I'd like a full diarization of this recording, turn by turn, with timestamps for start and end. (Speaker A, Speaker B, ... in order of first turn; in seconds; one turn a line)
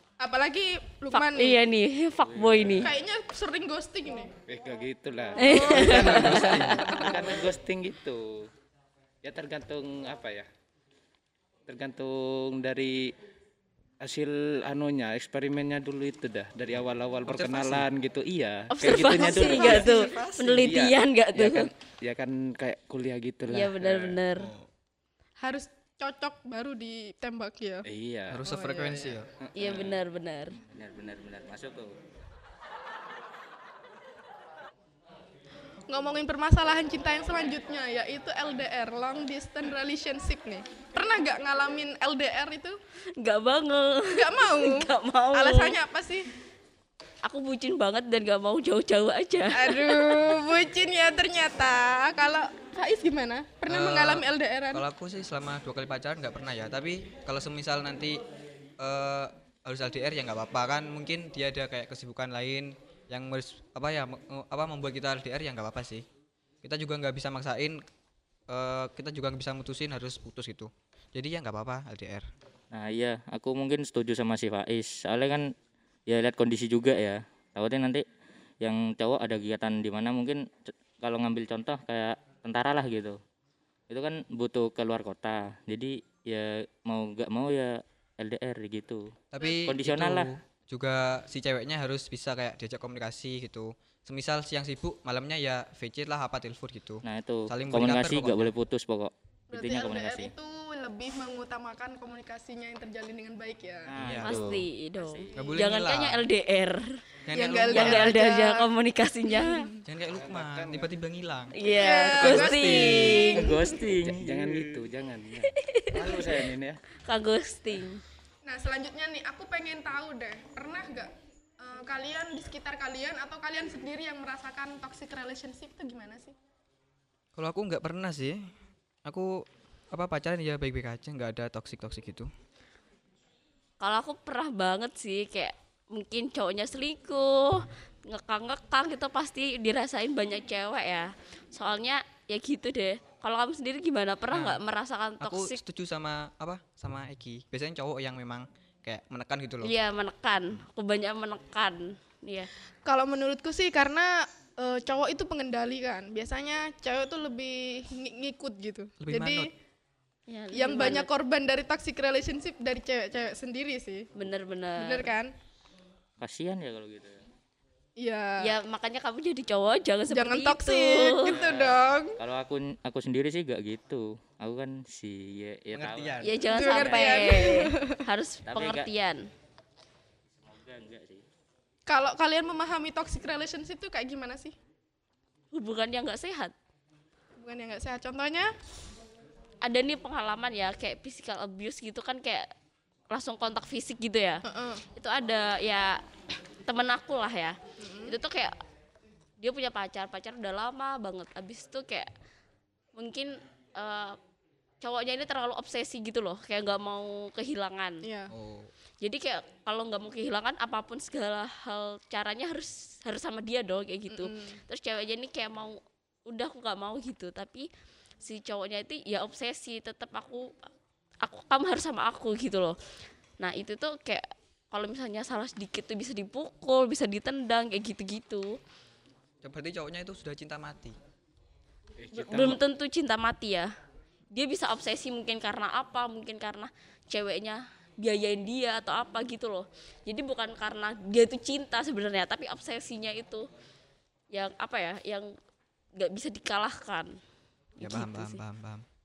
Speaker A: 0.2-1.6
Speaker B: 1.1-2.9
Speaker C: 2.3-2.9
Speaker A: 2.8-4.3
Speaker D: 4.5-8.5
Speaker B: 5.4-6.6
Speaker A: 5.4-7.1
Speaker E: 5.7-6.9
Speaker D: 9.2-10.5
Speaker D: 11.7-13.1
Speaker D: 14.0-19.9
Speaker E: 17.3-17.9
Speaker B: 18.7-21.7
Speaker A: 19.1-20.6
Speaker D: 20.5-24.2
Speaker B: 23.5-24.5
Speaker E: 24.4-24.7
Speaker A: 25.4-27.9
Speaker D: 27.8-28.4
Speaker E: 28.3-29.3
Speaker A: 28.4-29.2
Speaker D: 29.4-30.0
Speaker B: 29.6-30.6
Speaker C: 30.7-31.9
Speaker A: 35.9-42.8
Speaker B: 43.2-45.8
Speaker A: 44.1-46.3
Speaker B: 47.2-50.1
Speaker A: 49.5-54.8
Speaker E: 53.6-58.2
Speaker E: 58.8-66.0
Speaker E: 66.6-67.8
Speaker E: 68.5-72.2
Speaker C: 72.7-75.5
Speaker C: 76.1-78.0
Speaker C: 78.6-83.2
Speaker C: 83.9-90.3
Speaker E: 89.3-98.5
Speaker C: 97.0-100.3
Speaker A: 99.5-103.9
Speaker C: 103.8-105.6
Speaker E: 104.0-104.5
Speaker B: 104.2-106.9
Speaker E: 105.3-106.2
Speaker E: 107.2-108.1
Speaker A: 107.3-108.7
Speaker B: 107.7-109.7
Speaker A: 109.3-109.8
Speaker E: 109.8-111.5
Speaker D: 110.1-111.0
Speaker B: 111.5-113.5
Speaker A: 111.7-113.8
Speaker E: 112.2-113.3
Speaker C: 113.2-114.9
Speaker D: 114.0-116.8
Speaker B: 115.6-116.3
Speaker B: 117.0-118.0
Speaker A: 118.4-126.3
Speaker E: 127.3-128.4
Speaker E: 129.0-132.3
Speaker B: 133.8-145.6
Speaker E: 144.3-144.6
Speaker E: 145.2-149.7
Speaker B: 149.6-152.5
Speaker A: 152.8-159.5
Speaker E: 159.0-159.5
Speaker B: 160.3-161.1
Speaker A: 160.5-164.1
Speaker B: 164.2-165.1
Speaker A: 164.8-165.3
Speaker C: 166.2-167.2
Speaker A: 168.0-168.4
Speaker B: 168.4-171.3
Speaker A: 170.1-172.1
Speaker C: 171.3-177.5
Speaker E: 175.7-176.3
Speaker B: 176.2-179.2
Speaker A: 176.5-178.0
Speaker C: 178.4-178.9
Speaker C: 180.4-181.2
Speaker A: 181.9-184.5
Speaker B: 185.5-186.5
Speaker A: 187.4-188.5
Speaker B: 189.6-192.4
Speaker B: 193.1-194.4
Speaker A: 194.4-194.8
Speaker B: 194.9-196.0
Speaker B: 196.6-198.5
Speaker A: 197.8-198.2
Speaker B: 199.4-202.1
Speaker B: 202.9-204.1
Speaker B: 204.8-208.0
Speaker A: 208.0-208.3
Speaker E: 208.3-208.7
Speaker B: 209.0-217.7
Speaker A: 214.1-214.6
Speaker B: 218.2-220.5
Speaker B: 221.2-222.8
Speaker B: 223.4-228.6
Speaker E: 229.4-230.9
Speaker D: 232.0-232.6
Speaker B: 232.1-233.7
Speaker B: 234.3-243.5
Speaker B: 244.3-245.3
Speaker B: 245.9-247.2
Speaker B: 247.8-248.4
Speaker E: 247.8-248.8